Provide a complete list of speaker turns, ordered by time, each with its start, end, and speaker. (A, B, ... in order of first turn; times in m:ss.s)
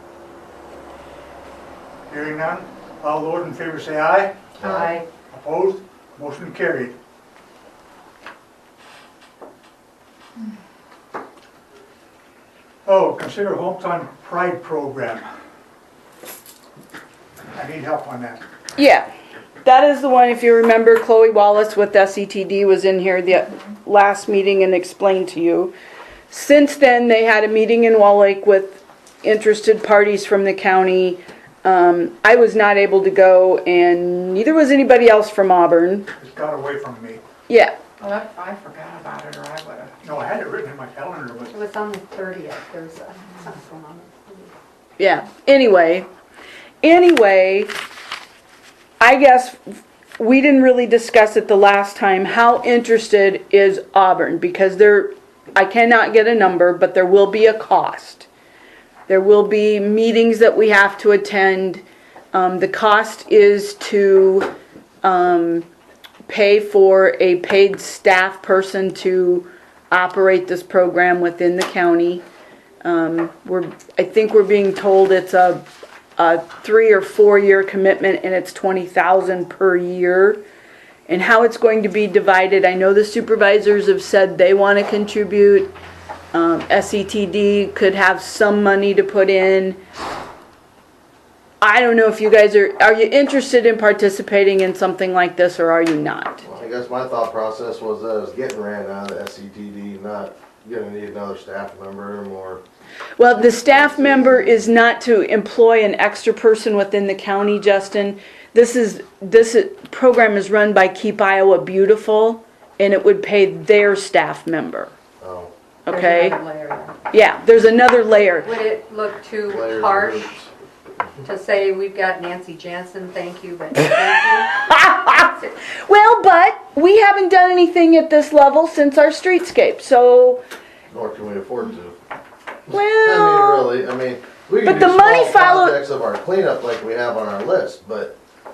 0:02.1-0:04.4 A
0:04.6-0:05.1 B
0:04.6-0:05.0 C
0:05.3-0:07.0 A
0:12.8-0:15.2 A
0:17.5-0:18.4 A
0:18.8-0:19.1 D
0:19.6-0:25.7 D
0:26.3-0:36.1 D
0:36.2-0:37.2 A
0:37.5-0:37.7 D
0:38.0-0:40.0 E
0:40.0-0:41.5 A
0:41.5-0:44.5 B
0:45.0-0:46.0 D
0:46.8-0:47.7 D
0:49.0-0:58.3 D
0:59.1-1:01.8 D
1:02.3-1:04.5 D
1:05.0-1:05.6 D
1:06.3-1:12.2 D
1:12.8-1:20.4 D
1:21.1-1:25.7 D
1:26.3-1:29.8 D
1:31.6-1:36.4 D
1:36.4-1:42.6 C
1:43.2-1:54.9 D
1:43.3-1:44.7 C
1:55.2-1:55.5 C
1:55.8-1:56.4 D
1:55.9-1:57.0 B
1:57.1-1:58.5 D
1:58.4-2:00.4 B
1:59.5-2:00.5 C
2:01.2-2:05.5 B
2:04.6-2:10.4 D
2:10.9-2:12.0 C
2:12.7-2:13.7 D
2:12.7-2:18.1 C
2:14.6-2:15.8 D